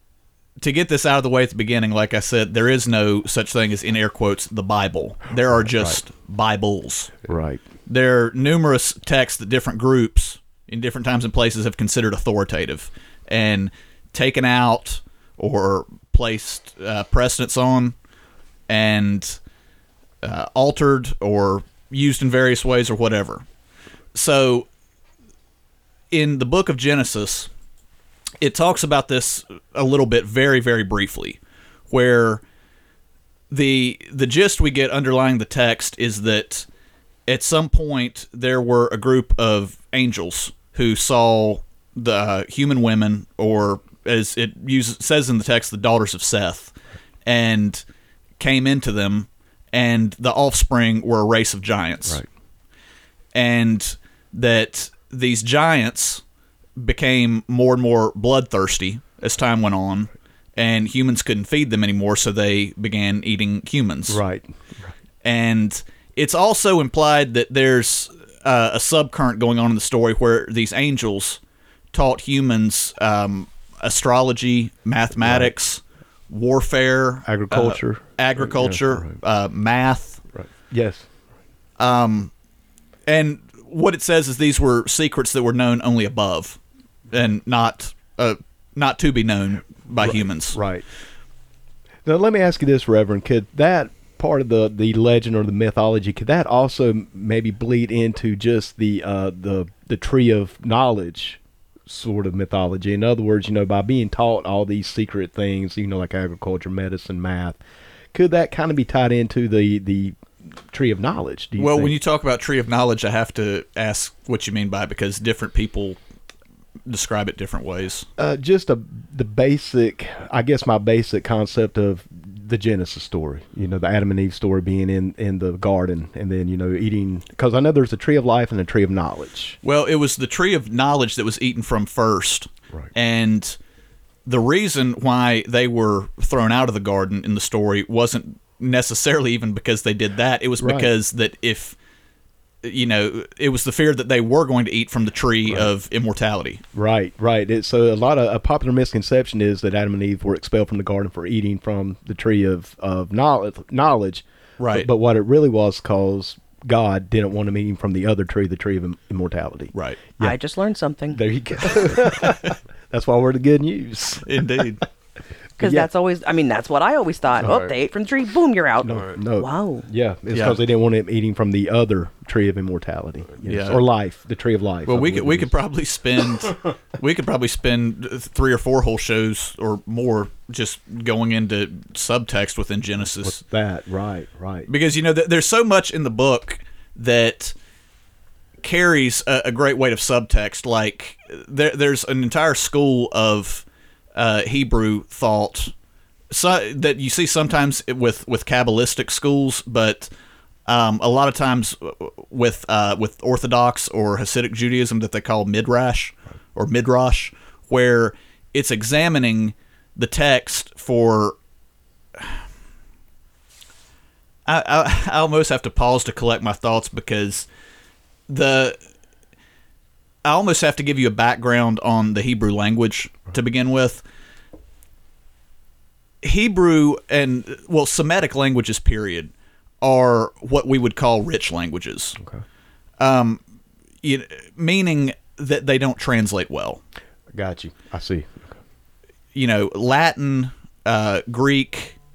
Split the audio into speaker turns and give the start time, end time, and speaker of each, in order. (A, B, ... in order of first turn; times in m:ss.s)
0:00.6-0:07.2 A
0:05.6-0:06.0 B
0:07.3-0:07.6 B
0:07.9-0:17.9 A
0:18.7-0:19.4 A
0:20.2-0:23.4 A
0:24.1-0:24.7 A
0:26.1-0:27.5 A
0:28.4-0:31.4 A
0:31.9-0:32.4 A
0:33.5-0:36.6 A
0:37.3-0:46.7 A
0:47.2-0:47.8 A
0:48.4-0:52.2 A
0:53.3-0:56.2 A
0:56.8-1:04.2 A
1:04.1-1:04.9 B
1:05.2-1:11.4 A
1:11.9-1:20.2 A
1:15.2-1:15.5 B
1:17.2-1:19.1 B
1:20.3-1:21.1 B
1:21.8-1:22.3 A
1:23.0-1:26.6 A
1:27.1-1:30.6 A
1:30.0-1:30.8 B
1:32.0-1:47.6 B
1:48.1-1:51.9 B
1:51.6-1:56.0 A
1:56.9-1:58.0 A
1:58.2-2:09.6 B
2:09.6-2:13.6 A
2:14.2-2:21.7 A
2:20.6-2:20.9 B
2:22.6-2:26.6 A
2:26.7-2:40.4 B
2:34.6-2:34.9 A
2:39.7-2:40.0 A
2:40.2-2:41.2 C
2:41.1-2:44.7 B
2:44.2-2:44.8 A
2:45.6-2:45.9 B
2:45.6-2:49.9 C
2:47.4-2:47.7 B
2:48.8-2:55.5 B
2:50.3-2:50.6 A
2:53.4-2:53.8 A
2:54.8-3:03.4 A
3:03.1-3:04.7 B
3:04.7-3:07.5 A
3:08.6-3:15.7 A
3:16.3-3:20.1 A
3:20.6-3:31.4 A
3:34.4-3:37.5 A
3:38.3-3:38.8 A
3:40.2-3:44.0 A
3:46.2-3:52.2 A
3:52.2-3:52.4 B
3:53.0-3:53.4 A
3:54.0-3:56.8 A
3:57.3-3:58.5 B
3:59.3-4:02.0 A